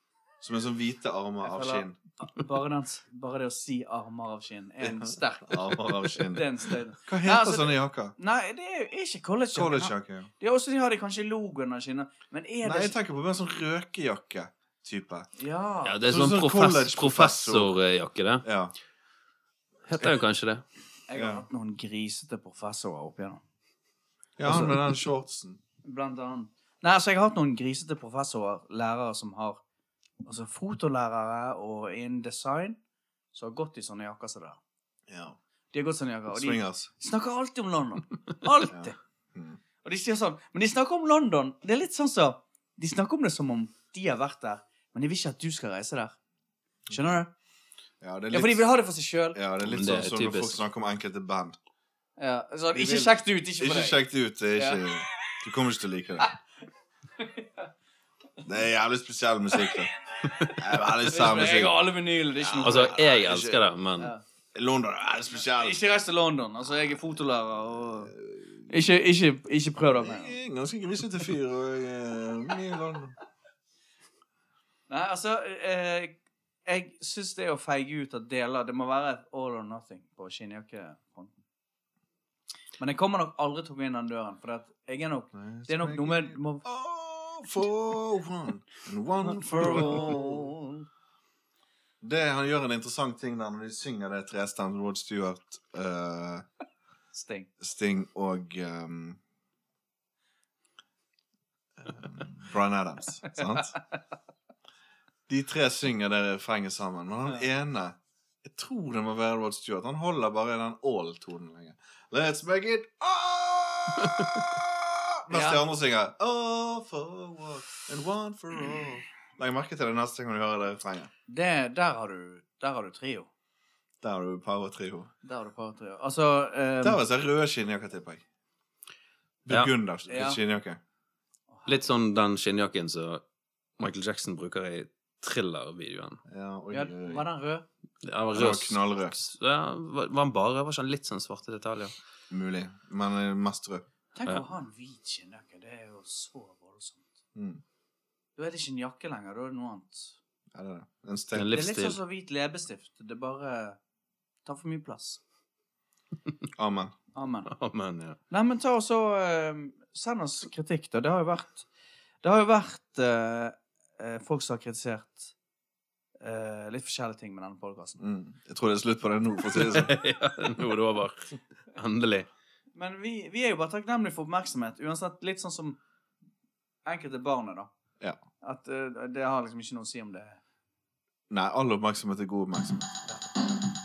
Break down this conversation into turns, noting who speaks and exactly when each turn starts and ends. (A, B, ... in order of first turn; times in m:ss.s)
0:00.4-0:02.0 A
0:01.4-0:13.0 B
0:04.8-0:08.1 A
0:09.5-0:10.3 A
0:12.6-0:15.3 A
0:15.4-0:16.0 B
0:15.8-0:18.5 C
0:16.1-0:17.8 A
0:18.4-0:18.7 A
0:19.9-0:20.6 C
0:21.1-0:23.4 B
0:21.2-0:21.4 A
0:24.4-0:25.6 A
0:24.4-0:24.8 B
0:25.8-0:29.6 B
0:30.2-0:32.8 B
0:33.3-0:34.6 B
0:35.1-0:35.4 A
0:35.7-0:39.0 B
0:36.3-0:36.9 A
0:38.7-0:39.6 A
0:39.8-0:46.2 B
0:46.9-0:47.3 B
0:48.0-0:48.7 A
0:48.3-0:49.4 B
0:49.3-0:51.6 A
0:49.6-0:50.6 C
0:52.2-0:54.0 B
0:52.7-0:56.3 A
0:54.6-0:54.8 B
0:57.2-0:57.7 B
0:58.4-0:59.9 A
1:00.2-1:00.6 C
1:00.6-1:03.6 A
1:01.0-1:03.0 B
1:02.6-1:04.1 C
1:04.0-1:04.2 B
1:04.5-1:05.8 A
1:05.3-1:08.1 B
1:08.1-1:08.7 A
1:08.7-1:10.4 B
1:09.9-1:13.2 A
1:14.9-1:21.4 B
1:22.8-1:26.6 B
1:25.3-1:30.5 A
1:29.2-1:30.9 B
1:32.0-1:36.5 A
1:37.1-1:37.5 B
1:37.6-1:39.2 A
1:41.8-1:43.8 A
1:45.3-2:01.1 A
1:55.3-1:55.6 B
2:01.3-2:03.3 B
2:04.0-2:05.1 A
2:05.2-2:07.0 B
2:06.8-2:08.2 A
2:09.4-2:10.8 A
2:10.1-2:10.4 B
2:11.5-2:11.9 B
2:11.7-2:13.2 C
2:13.8-2:16.2 C
2:16.3-2:17.2 A
2:16.7-2:17.6 B
2:18.0-2:21.9 C
2:18.3-2:19.2 A
2:22.3-2:23.8 A
2:24.1-2:27.1 B
2:27.4-2:27.6 A
2:28.4-2:30.2 B
2:30.5-2:31.5 A
2:31.3-2:32.0 C
2:31.5-2:33.8 B
2:34.4-2:35.2 B
2:36.6-2:37.0 A
2:37.2-2:37.5 B
2:37.5-2:38.2 C
2:38.3-2:41.7 B
2:42.2-2:45.3 B
2:46.2-2:48.0 B
2:48.0-2:49.9 A
2:49.5-2:52.3 C
2:52.8-2:55.8 B
2:56.9-2:57.7 B
2:58.4-3:00.4 B
3:01.3-3:03.1 A